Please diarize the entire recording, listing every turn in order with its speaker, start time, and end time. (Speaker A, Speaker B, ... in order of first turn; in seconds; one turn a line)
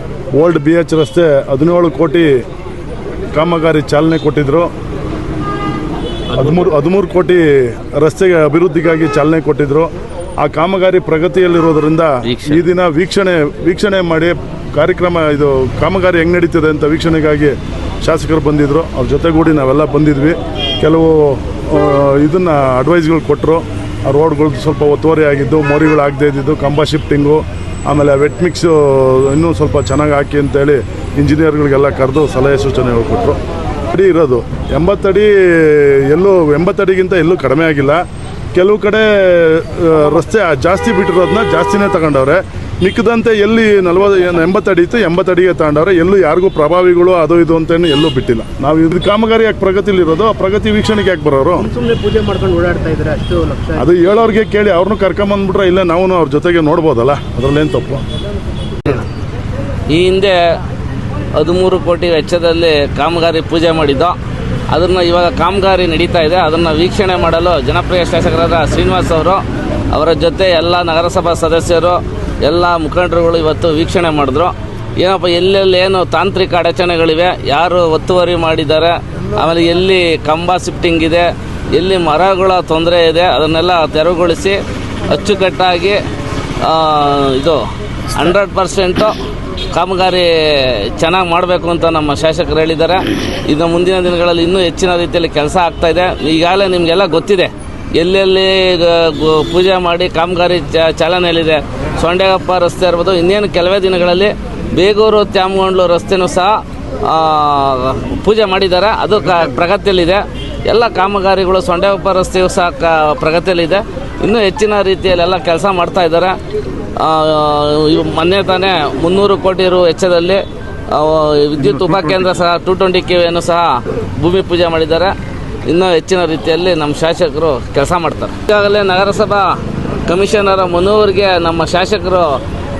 Speaker A: 0.3-2.3
Speaker A: 3.3-4.7
Speaker A: 6.3-33.4
Speaker B: 12.2-12.6
Speaker A: 33.9-38.0
Speaker A: 38.5-51.7
Speaker C: 51.7-53.8
Speaker A: 53.8-58.0
Speaker B: 59.9-60.6
Speaker B: 61.4-64.2
Speaker B: 64.7-86.0
Speaker B: 86.6-89.2
Speaker B: 89.7-116.4
Speaker B: 117.0-125.1
Speaker B: 125.7-132.4